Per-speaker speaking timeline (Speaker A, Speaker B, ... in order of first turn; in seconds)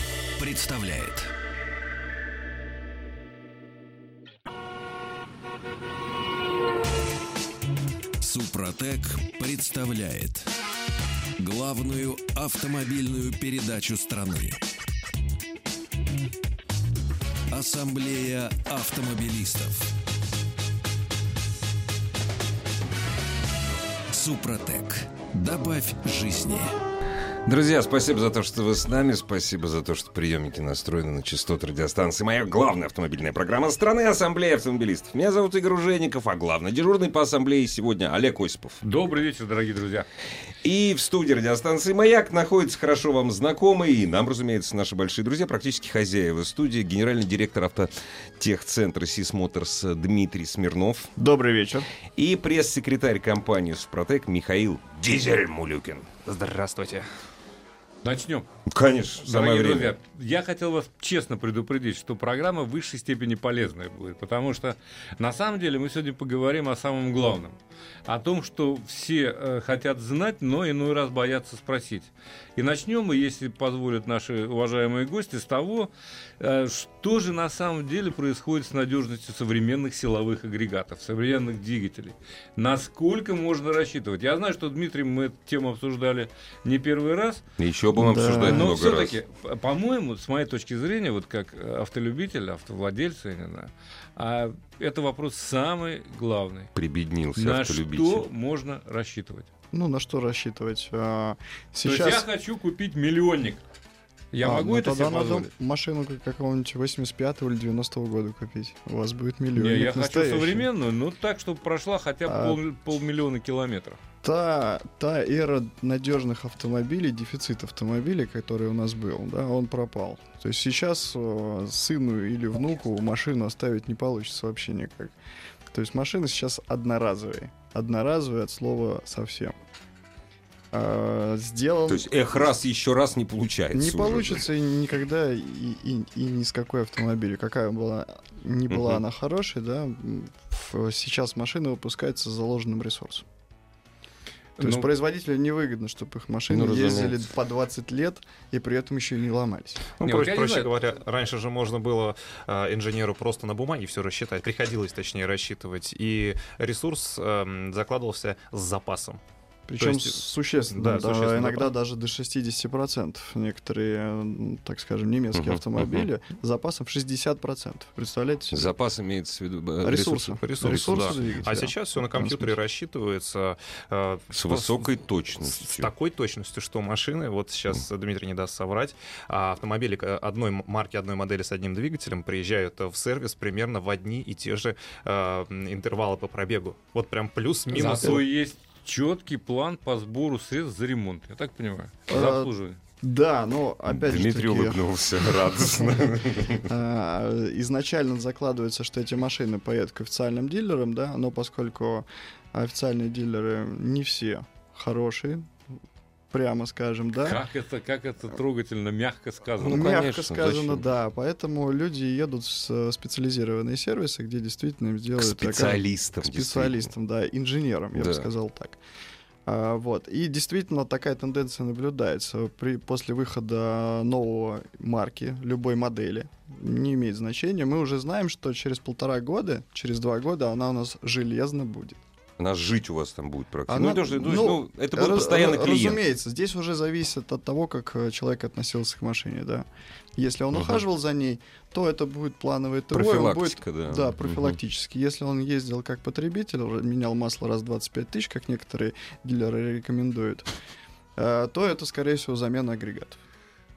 Speaker A: 0.4-1.3, 8.2-10.5, 11.4-14.6, 17.5-19.9, 24.1-26.7
Speaker B: 27.4-38.8, 40.6-51.1, 52.1-56.2, 58.7-60.0, 87.6-89.2, 96.7-98.2, 131.9-134.4, 138.7-139.0, 146.5-147.2, 165.3-166.1, 168.5-171.2, 174.3-175.9, 193.9-196.7, 209.6-210.8, 215.2-216.9, 217.9-218.3, 232.4-236.0, 240.5-240.8, 242.9-244.6
Speaker C: 38.8-40.1, 58.0-58.5, 59.2-87.4, 88.4-96.7, 97.3-99.5, 101.8-103.6, 104.3-105.5, 109.5-114.0, 144.6-144.9, 150.0-150.7, 187.7-192.8, 207.2-209.9
Speaker D: 51.2-51.9, 88.0-88.7, 99.7-102.3, 104.4-110.7, 112.3-112.6, 114.2-125.1, 125.7-129.6, 130.7-132.5, 133.7-143.2, 144.6-149.9, 159.7-168.7, 169.8-172.5, 192.1-192.5, 193.0-194.8, 195.7-196.1, 196.6-205.5, 206.3-207.4, 209.6-218.8, 219.4-232.0, 233.7-250.5, 251.2-253.2
Speaker E: 56.2-57.0, 150.0-159.2, 159.8-160.2, 160.7-161.7, 170.4-188.2